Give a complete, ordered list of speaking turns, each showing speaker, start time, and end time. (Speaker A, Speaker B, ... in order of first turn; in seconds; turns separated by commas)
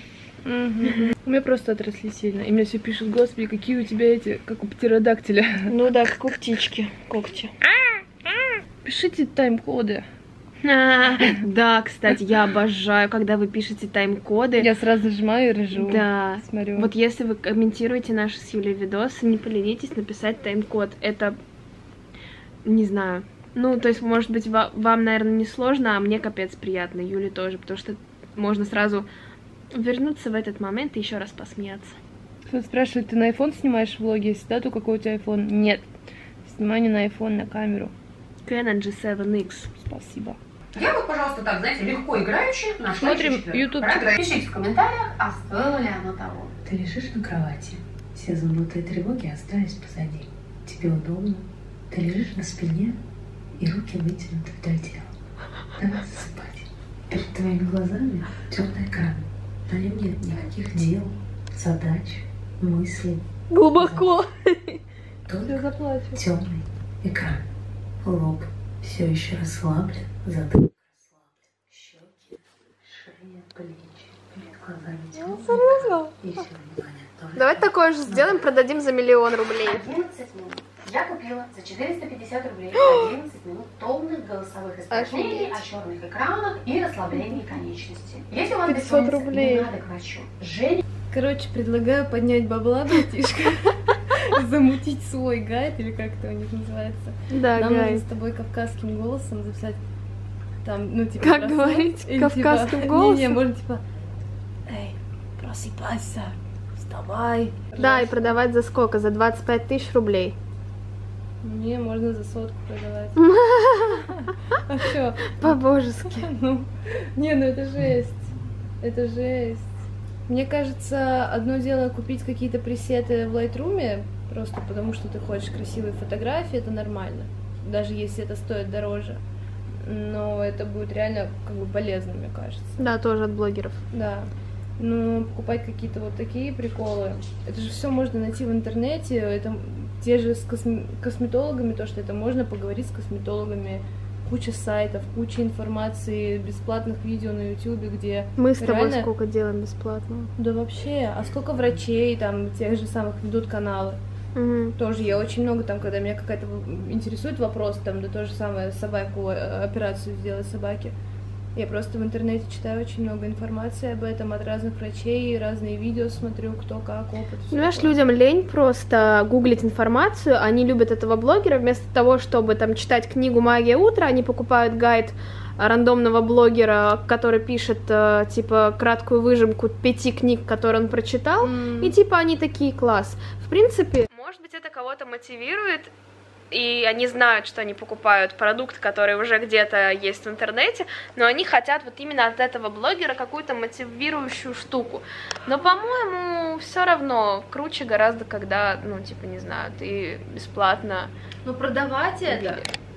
Speaker A: 0.5-5.7, Speaker B: 0.8-1.1, Speaker B: 5.7-7.5, Speaker A: 8.8-10.1, Speaker B: 10.6-14.7, Speaker A: 11.1-11.4, Speaker A: 14.6-16.9, Speaker B: 15.7-21.4, Speaker B: 22.6-29.1, Speaker B: 29.7-32.0, Speaker A: 32.5-35.9, Speaker A: 36.5-37.9, Speaker B: 38.5-39.8, Speaker A: 39.8-40.4, Speaker C: 40.7-46.5, Speaker A: 43.0-44.1, Speaker D: 46.6-53.0, Speaker D: 53.6-55.1, Speaker D: 55.8-64.1, Speaker B: 63.5-64.8, Speaker D: 65.3-67.5, Speaker A: 65.5-66.2, Speaker D: 68.0-72.1, Speaker D: 72.8-78.4, Speaker B: 75.2-76.1, Speaker B: 77.4-79.8, Speaker C: 79.6-90.8, Speaker B: 82.8-83.1, Speaker B: 84.9-85.7, Speaker B: 88.7-89.7, Speaker A: 91.1-99.8, Speaker B: 97.3-98.0, Speaker A: 100.6-103.8, Speaker B: 101.2-103.4, Speaker A: 104.7-108.3, Speaker B: 107.8-110.4, Speaker A: 111.4-113.3, Speaker B: 113.2-114.1, Speaker A: 114.1-119.7, Speaker B: 115.4-116.2, Speaker A: 120.3-129.2, Speaker A: 129.8-132.8, Speaker B: 132.8-133.8, Speaker A: 133.9-149.1, Speaker B: 148.4-150.3, Speaker A: 150.4-154.0, Speaker B: 154.3-154.8, Speaker A: 154.8-160.9, Speaker A: 161.6-167.9, Speaker B: 167.5-185.9, Speaker A: 181.4-181.9, Speaker B: 186.5-201.1, Speaker A: 201.4-202.6, Speaker B: 202.3-202.7